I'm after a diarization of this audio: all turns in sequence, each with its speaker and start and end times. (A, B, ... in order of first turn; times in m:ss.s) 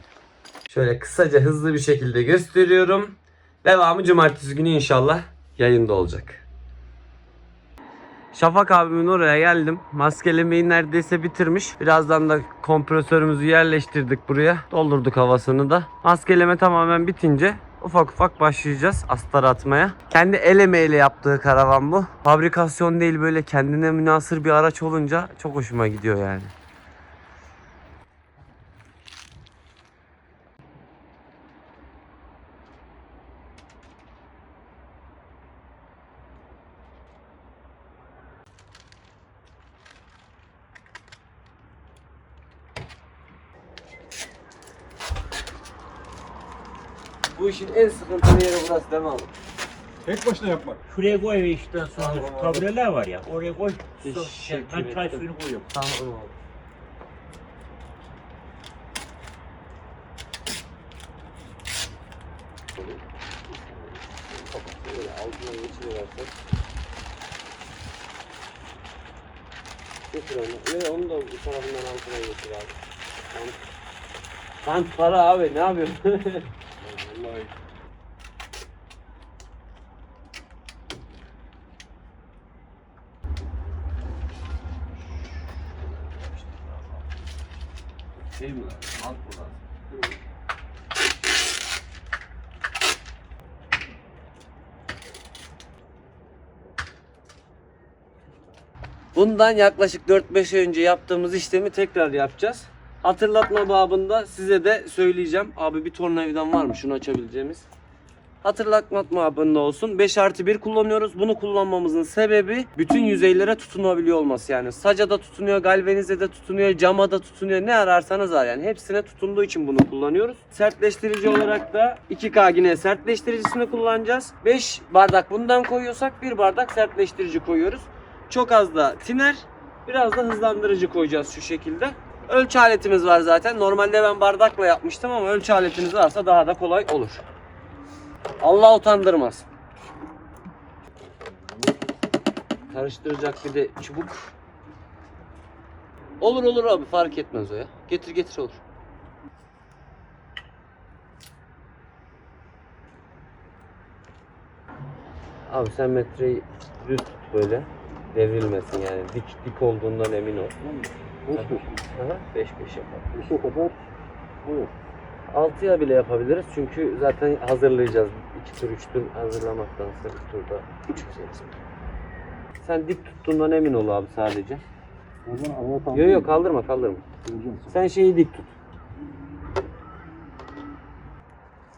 0:00.7-0:06.4 A
0:08.3-0:26.5 A
0:47.3-0:49.3 A
0:50.1-0:50.8 B
0:50.8-0:55.7 C
0:52.1-0:52.5 A
0:54.0-0:56.3 A
1:02.8-1:06.3 A
1:10.1-1:12.8 A
1:13.3-1:13.6 A
1:14.6-1:17.5 A
1:25.4-1:27.1 A
1:28.3-1:29.6 A
1:39.2-1:47.7 A
1:48.4-2:17.2 A
2:18.4-2:19.5 A
2:22.7-2:24.3 A
2:26.2-2:28.6 A
2:35.5-2:40.6 A
2:40.6-2:41.8 B
2:41.4-2:43.1 A
2:43.1-2:43.8 B
2:44.4-2:44.7 B
2:45.3-2:51.5 A
2:52.6-2:54.6 A
2:55.3-2:56.4 B
2:55.9-2:57.0 A
2:57.2-2:57.8 B
2:57.7-2:58.5 A